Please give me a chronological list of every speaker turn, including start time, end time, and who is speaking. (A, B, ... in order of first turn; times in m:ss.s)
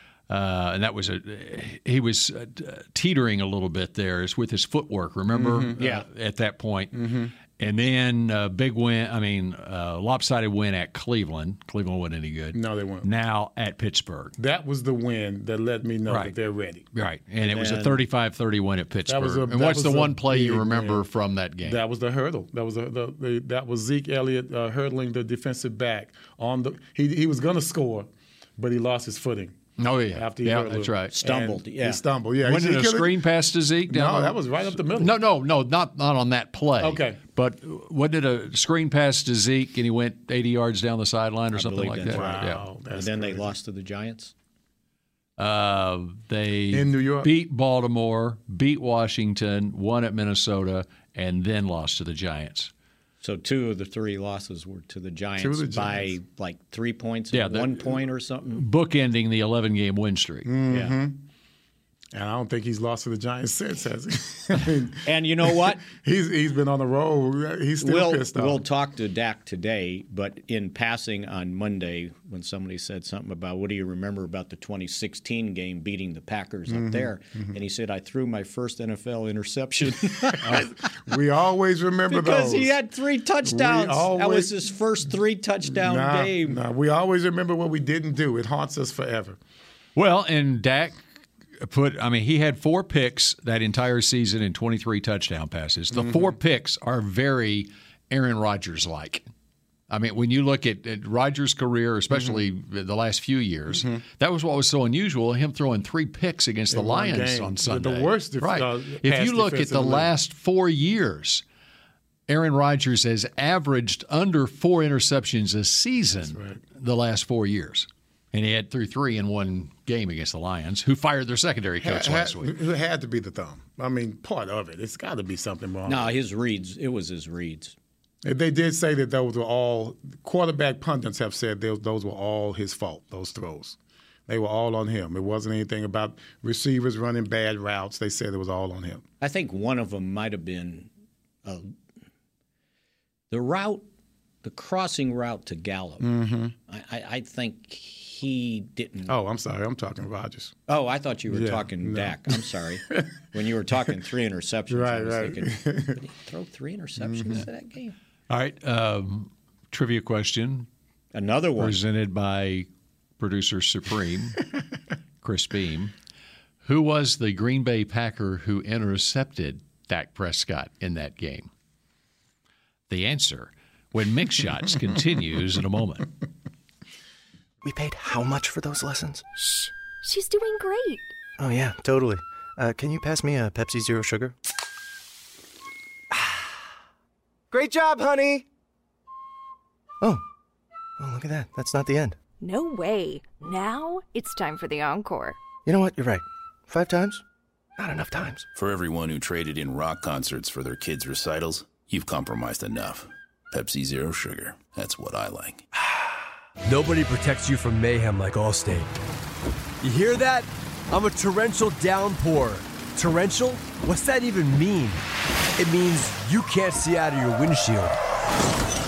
0:00.3-0:14.3 A
0:05.3-0:05.8 B
0:05.8-0:06.0 C
0:06.9-0:07.3 B
0:12.5-0:13.1 B
0:14.4-0:16.9 B
0:16.1-0:16.3 A
0:16.9-0:21.8 A
0:17.4-0:18.0 C
0:19.1-0:21.1 B
0:21.6-0:29.6 B
0:29.8-0:31.1 A
0:30.1-0:33.2 B
0:31.2-0:32.0 C
0:32.4-0:42.6 A
0:33.9-0:35.2 B
0:36.8-0:37.2 B
0:41.5-0:42.4 C
0:42.1-0:43.5 B
0:42.9-0:44.3 C
0:45.4-0:52.7 A
0:46.7-0:47.3 B
0:53.2-0:58.6 C
0:55.4-0:56.2 B
0:57.3-0:58.0 A
0:58.6-1:00.5 A
1:00.5-1:01.2 B
1:00.7-1:01.0 C
1:02.1-1:08.6 B
1:05.0-1:05.8 C
1:07.8-1:20.6 C
1:16.7-1:17.6 B
1:20.3-1:22.8 B
1:22.1-1:26.6 C
1:23.4-1:24.5 B
1:25.7-1:29.4 B
1:30.0-1:31.0 A
1:31.6-1:39.2 A
1:36.0-1:36.3 B
1:39.9-1:51.4 A
1:43.7-1:44.0 B
1:46.7-1:50.1 B
1:52.3-2:02.6 A
1:56.2-1:56.6 B
2:01.8-2:06.2 B
2:05.9-2:07.8 C
2:08.2-2:19.0 B
2:19.2-2:20.9 C
2:21.4-2:21.7 C
2:23.3-2:23.9 C
2:24.4-2:26.1 C
2:26.0-2:26.6 B
2:26.7-2:29.2 C
2:29.1-2:30.6 B
2:30.7-2:38.0 C
2:31.3-2:33.1 B
2:34.7-2:36.0 B
2:37.0-2:37.4 B
2:38.3-2:40.7 A
2:41.1-2:41.8 C
2:41.6-2:42.7 A
2:43.2-2:44.4 A
2:45.2-2:45.9 A
2:46.6-2:51.5 A
2:52.9-2:56.1 A
2:57.6-2:59.2 D
3:00.0-3:01.1 E
3:01.4-3:04.4 D
3:06.1-3:06.5 D
3:07.5-3:08.5 D
3:11.0-3:12.2 D
3:12.4-3:15.4 E
3:15.6-3:17.2 D
3:17.8-3:18.5 D
3:18.6-3:25.6 F
3:26.6-3:28.9 G
3:29.8-3:35.0 G
3:35.6-3:38.0 G